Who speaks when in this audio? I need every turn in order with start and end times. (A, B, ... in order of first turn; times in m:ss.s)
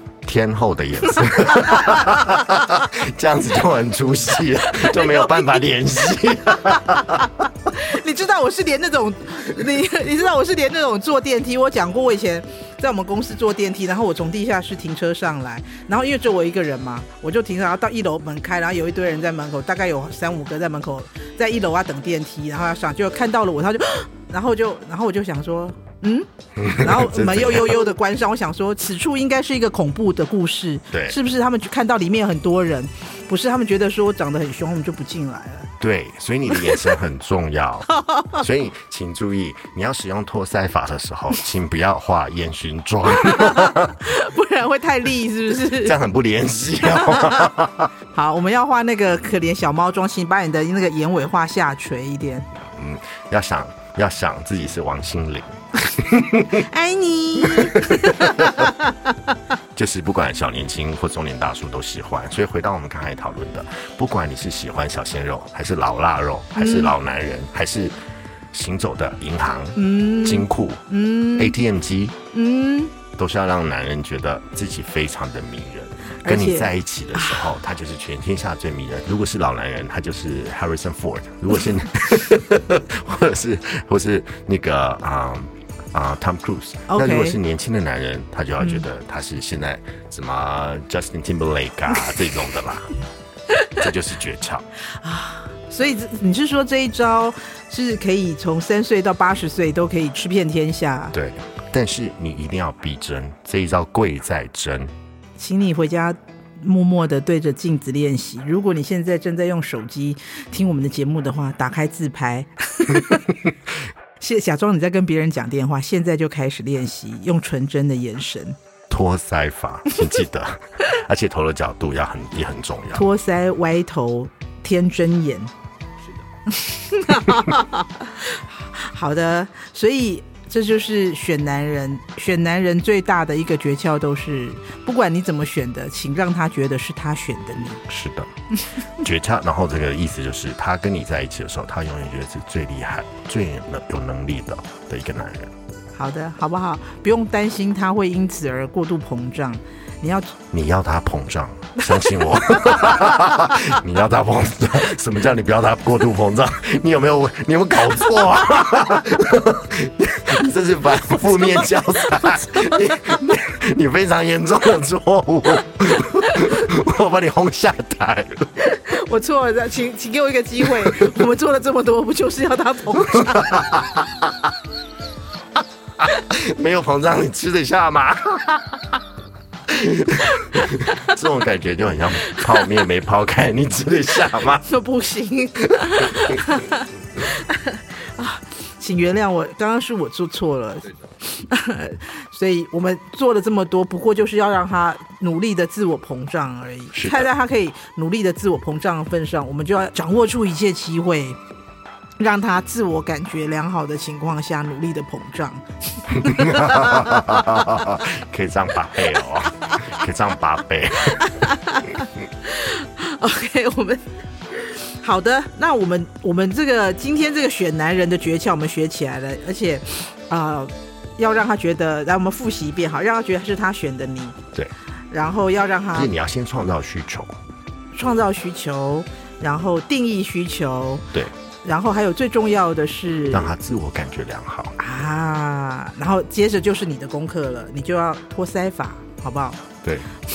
0:00.2-0:07.3 A
0:01.5-0:02.8 B
0:04.8-0:05.3 B
0:06.9-0:35.7 B
0:26.6-0:27.8 A
0:30.9-0:31.2 A
0:35.8-0:44.0 A
0:36.6-0:36.9 B
0:37.9-0:38.4 B
0:43.1-0:46.0 B
0:45.6-0:47.9 A
0:46.8-0:47.5 B
0:48.1-0:52.5 B
0:52.5-0:56.6 A
0:56.4-0:59.1 B
0:57.4-0:58.7 A
0:59.7-1:08.0 A
1:06.6-1:06.9 B
1:08.5-1:10.8 A
1:09.8-1:11.5 B
1:11.4-1:12.2 A
1:12.3-1:12.9 B
1:13.1-1:32.9 A
1:16.2-1:17.4 B
1:26.9-1:27.4 B
1:33.5-1:33.8 B
1:33.8-1:34.6 A
1:35.0-1:41.1 B
1:41.1-1:44.9 A
1:45.4-1:53.3 B
1:54.2-1:58.6 B
1:58.9-2:03.0 A
2:02.9-2:05.5 B
2:06.5-2:17.8 B
2:17.9-2:18.3 A
2:18.9-2:25.5 A
2:26.0-2:30.3 B
2:30.5-2:48.5 A
2:31.8-2:33.6 B
2:42.2-2:43.4 B
2:46.0-2:46.6 B
2:48.6-2:53.8 B
2:53.1-2:54.5 A
2:56.0-2:58.8 A
2:59.7-3:04.6 A
3:00.4-3:01.1 B
3:02.2-3:02.7 B
3:04.6-3:21.4 B
3:06.0-3:06.4 A
3:16.9-3:17.3 A
3:22.2-3:27.9 B
3:26.2-3:31.3 A
3:29.7-3:30.0 B
3:31.2-3:44.4 B
3:45.1-3:46.1 B
3:45.9-3:47.4 A
3:47.9-3:51.1 B
3:51.6-3:53.5 B
3:53.3-3:54.8 A
3:54.8-3:59.6 B
3:59.8-4:00.1 A